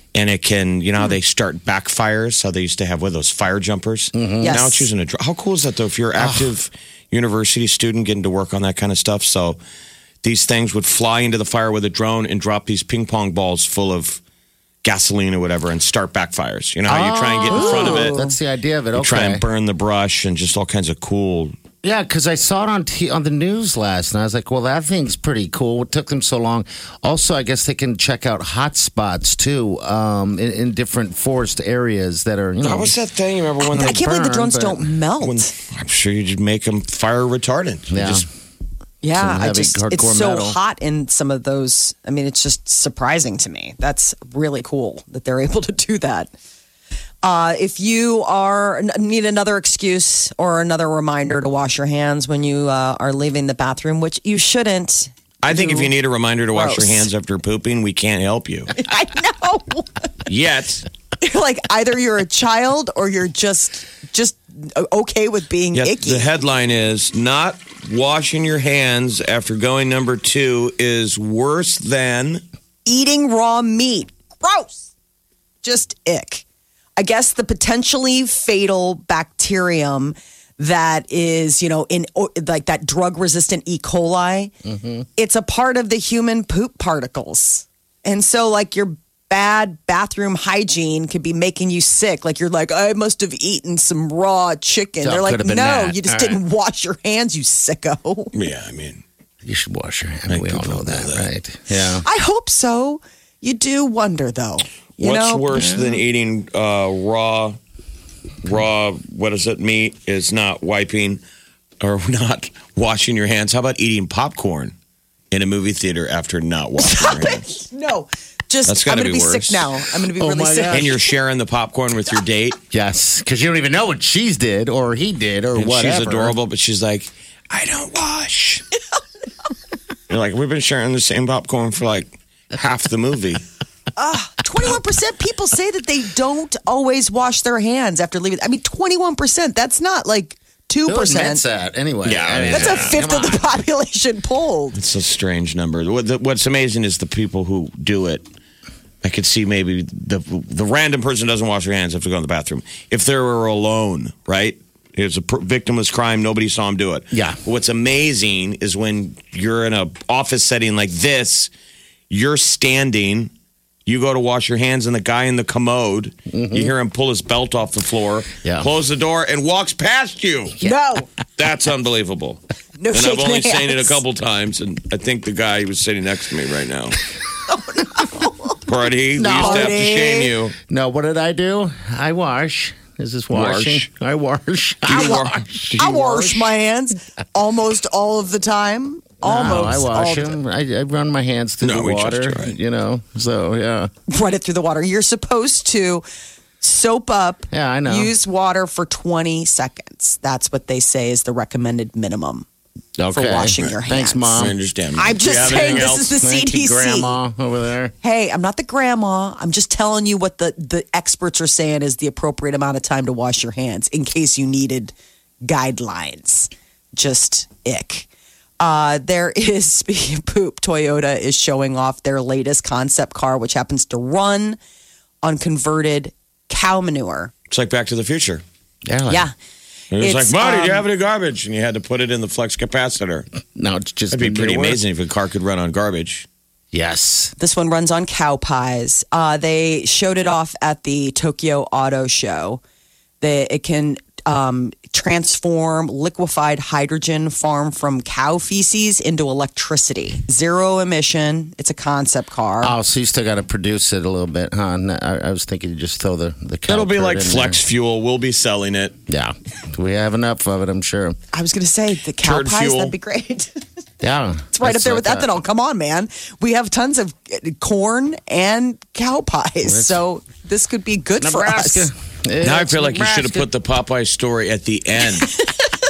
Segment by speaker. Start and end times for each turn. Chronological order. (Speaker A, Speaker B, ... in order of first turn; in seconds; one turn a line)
Speaker A: 0.1-9.6
Speaker B: 4.1-4.6
Speaker C: 4.4-4.9
Speaker B: 6.2-6.5
Speaker A: 10.2-14.2
Speaker A: 14.8-18.2
Speaker B: 16.9-19.4
Speaker C: 17.5-18.3
Speaker A: 18.9-21.5
Speaker B: 21.8-33.0
Speaker A: 32.6-34.0
Speaker C: 33.7-35.5
Speaker B: 33.7-34.9
Speaker A: 35.2-38.2
Speaker B: 37.9-38.3
Speaker C: 39.0-46.3
Speaker B: 39.1-40.6
Speaker C: 47.2-55.9
Speaker A: 55.4-58.7
Speaker C: 56.5-57.1
Speaker C: 58.8-60.0
Speaker A: 60.2-60.9
Speaker C: 61.2-66.3
Speaker A: 65.7-72.4
Speaker C: 72.8-74.9
Speaker C: 75.6-76.4
Speaker C: 77.0-84.5
Speaker B: 84.6-85.0
Speaker C: 85.2-98.3
Speaker B: 95.0-96.4
Speaker A: 98.3-99.0
Speaker B: 99.4-102.0
Speaker A: 100.3-101.3
Speaker C: 101.9-105.6
Speaker A: 105.0-107.6
Speaker B: 105.5-106.0
Speaker A: 108.4-111.2
Speaker A: 111.8-114.7
Speaker A: 115.3-117.4
Speaker C: 116.8-121.1
Speaker A: 118.6-119.7
Speaker B: 120.2-121.0
Speaker A: 120.7-122.6
Speaker B: 122.7-126.3
Speaker A: 125.5-128.6
Speaker A: 130.1-133.4
Speaker C: 133.9-141.4
Speaker B: 140.8-143.4
Speaker A: 142.0-143.0
Speaker C: 142.4-144.8
Speaker A: 144.7-148.2
Speaker A: 149.0-161.5
Speaker B: 157.1-157.4
Speaker A: 162.1-163.3
Speaker A: 163.8-170.6
Speaker B: 166.3-166.7
Speaker C: 170.6-171.1
Speaker A: 171.4-172.4
Speaker C: 172.8-174.0
Speaker A: 172.9-177.0
Speaker C: 177.5-178.5
Speaker A: 178.6-180.6
Speaker B: 179.2-179.8
Speaker C: 179.3-180.3
Speaker B: 180.7-185.8
Speaker A: 183.3-183.8
Speaker A: 184.8-186.5
Speaker C: 184.9-185.2
Speaker C: 185.8-190.3
Speaker B: 189.2-193.9
Speaker A: 191.6-192.6
Speaker C: 194.1-196.0
Speaker C: 196.6-202.4
Speaker B: 197.5-198.1
Speaker B: 203.0-204.5
Speaker C: 203.1-204.4
Speaker A: 204.3-206.1
Speaker C: 204.9-207.2
Speaker B: 205.3-207.9
Speaker C: 208.0-214.9
Speaker C: 215.4-218.1
Speaker C: 218.6-224.6
Speaker C: 225.2-227.3
Speaker A: 227.5-228.4
Speaker B: 228.8-229.3
Speaker C: 229.1-229.3
Speaker A: 229.9-233.3
Speaker C: 230.0-230.9
Speaker B: 233.5-234.8
Speaker A: 234.1-236.3
Speaker B: 236.7-237.3
Speaker C: 237.4-242.6
Speaker C: 243.2-252.7
Speaker B: 252.6-257.6
Speaker A: 256.7-259.0
Speaker B: 259.1-261.2
Speaker C: 261.3-263.6
Speaker A: 262.2-262.9
Speaker B: 264.0-265.4
Speaker C: 264.5-271.9
Speaker B: 269.6-270.0
Speaker B: 271.2-273.5
Speaker A: 272.4-275.4